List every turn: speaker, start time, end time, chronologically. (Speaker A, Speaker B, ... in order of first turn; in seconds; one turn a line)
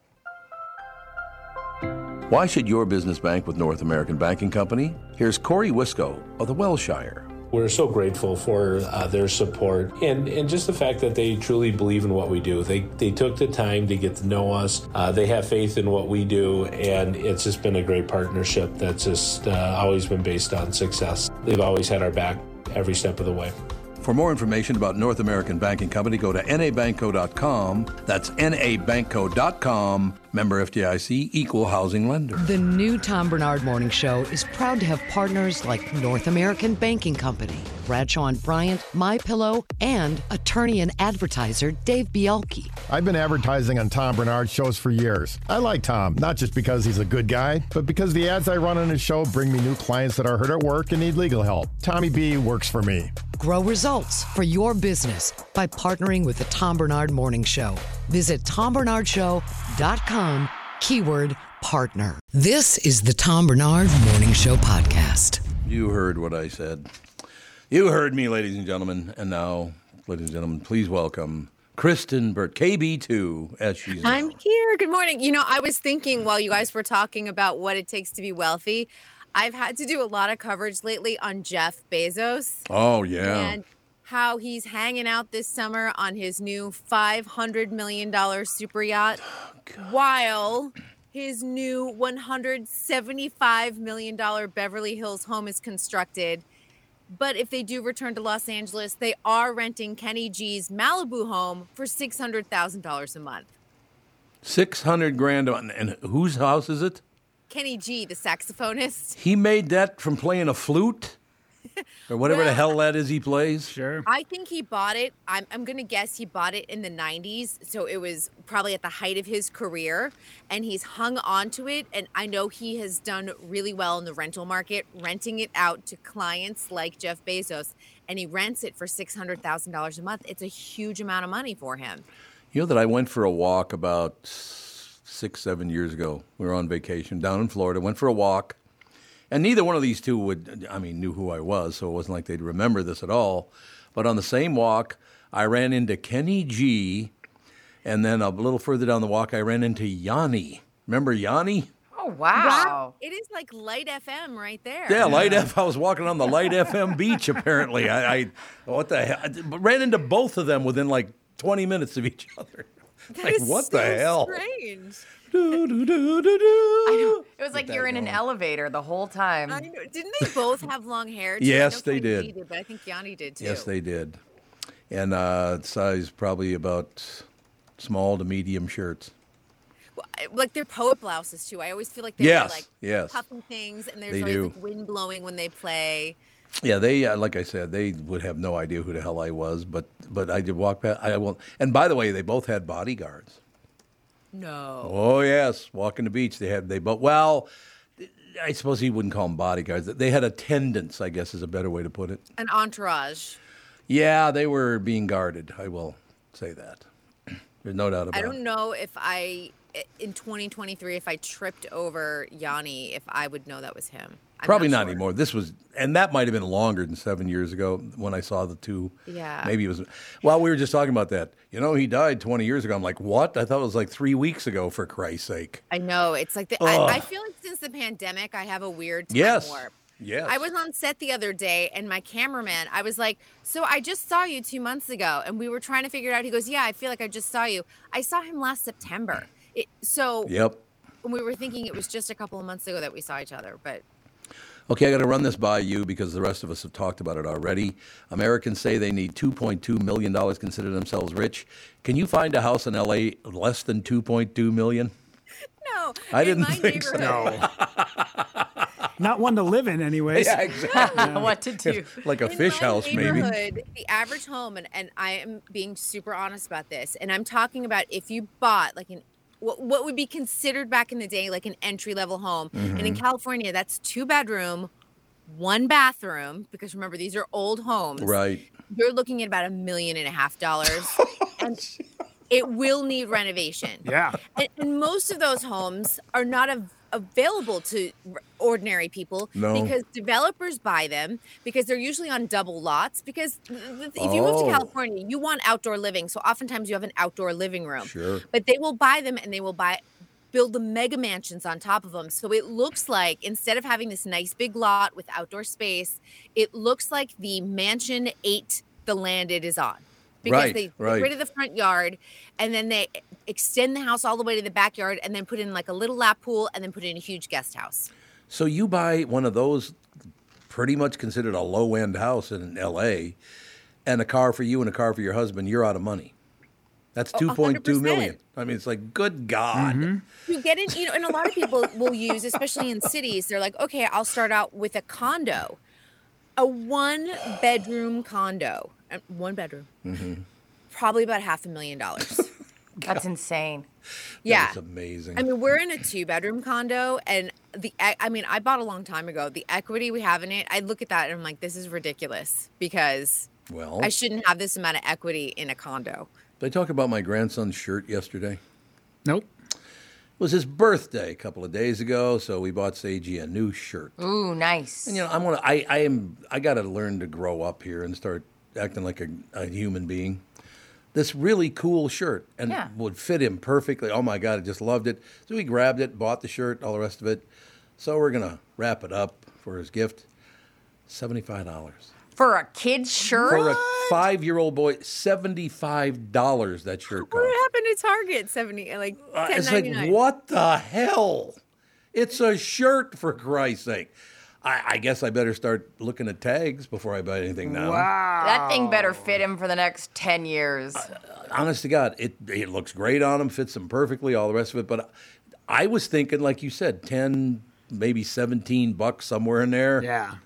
Speaker A: 2.3-7.3
Speaker B: 7.5-23.6
Speaker A: 24.0-32.4
Speaker C: 32.4-42.7
Speaker D: 42.9-53.2
Speaker C: 53.3-65.4
Speaker A: 65.6-66.9
Speaker A: 67.7-74.4
Speaker E: 74.0-82.7
Speaker A: 82.7-83.6
Speaker E: 83.2-89.2
Speaker A: 89.6-89.9
Speaker E: 89.8-96.5
Speaker E: 97.1-103.5
Speaker A: 104.4-107.0
Speaker E: 107.5-109.2
Speaker A: 109.2-111.2
Speaker A: 112.1-113.7
Speaker E: 112.2-112.7
Speaker F: 113.7-114.1
Speaker E: 114.1-132.1
Speaker A: 132.5-138.6
Speaker A: 139.3-147.1
Speaker A: 147.8-151.7
Speaker G: 152.0-152.9
Speaker E: 152.3-155.2
Speaker A: 154.9-164.4
Speaker F: 155.0-155.5
Speaker E: 163.1-165.1
Speaker A: 165.3-168.2
Speaker G: 166.8-169.7
Speaker E: 169.5-173.7
Speaker A: 171.4-172.3
Speaker A: 173.4-174.2
Speaker A: 174.9-177.3
Speaker A: 177.8-179.1
Speaker E: 180.0-186.2
Speaker A: 182.2-183.2
Speaker A: 184.1-184.6
Speaker A: 186.6-193.4
Speaker E: 194.3-194.9
Speaker A: 194.8-197.5
Speaker A: 198.0-202.2
Speaker E: 202.4-203.4
Speaker A: 203.9-206.9
Speaker A: 207.6-208.4
Speaker E: 208.1-215.0
Speaker A: 214.4-225.6
Speaker E: 219.1-219.5
Speaker E: 225.7-229.7
Speaker A: 226.6-227.1
Speaker A: 229.1-230.5
Speaker E: 230.3-240.3
Speaker A: 240.3-240.6
Speaker E: 241.0-243.8
Speaker A: 244.7-254.9
Speaker E: 255.6-257.4
Speaker A: 256.1-258.7
Speaker F: 256.9-257.5
Speaker F: 259.0-261.4
Speaker A: 260.1-263.4
Speaker E: 260.7-261.0
Speaker G: 260.7-262.0
Speaker E: 262.2-274.7
Speaker A: 272.5-273.0
Speaker E: 275.3-278.1
Speaker A: 278.0-278.5
Speaker E: 278.7-281.6
Speaker A: 280.8-281.8
Speaker E: 282.3-283.9
Speaker F: 283.8-284.2
Speaker E: 284.4-299.8
Speaker A: 289.4-289.7
Speaker A: 294.0-294.7
Speaker A: 297.8-298.2
Speaker E: 300.3-317.9
Speaker A: 310.2-311.1
Speaker A: 318.3-319.8
Speaker A: 320.5-323.2
Speaker A: 323.9-326.1
Speaker A: 326.9-329.9
Speaker E: 327.1-328.2
Speaker F: 329.5-330.1
Speaker E: 330.3-335.6
Speaker E: 336.4-339.7
Speaker A: 339.9-340.2
Speaker E: 340.7-342.3
Speaker G: 342.9-343.7
Speaker E: 344.2-344.6
Speaker A: 344.2-345.3
Speaker E: 345.2-353.3
Speaker A: 353.5-353.9
Speaker E: 353.8-356.1
Speaker A: 356.4-358.4
Speaker A: 360.2-364.0
Speaker G: 364.0-365.0
Speaker A: 364.9-370.2
Speaker A: 370.9-377.2
Speaker A: 377.8-380.1
Speaker A: 380.9-381.9
Speaker G: 382.2-383.6
Speaker A: 383.2-387.4
Speaker E: 386.9-390.0
Speaker A: 389.1-391.4
Speaker A: 391.9-397.9
Speaker F: 397.4-399.1
Speaker G: 398.2-400.9
Speaker A: 400.8-404.9
Speaker A: 405.5-409.9
Speaker F: 409.8-410.2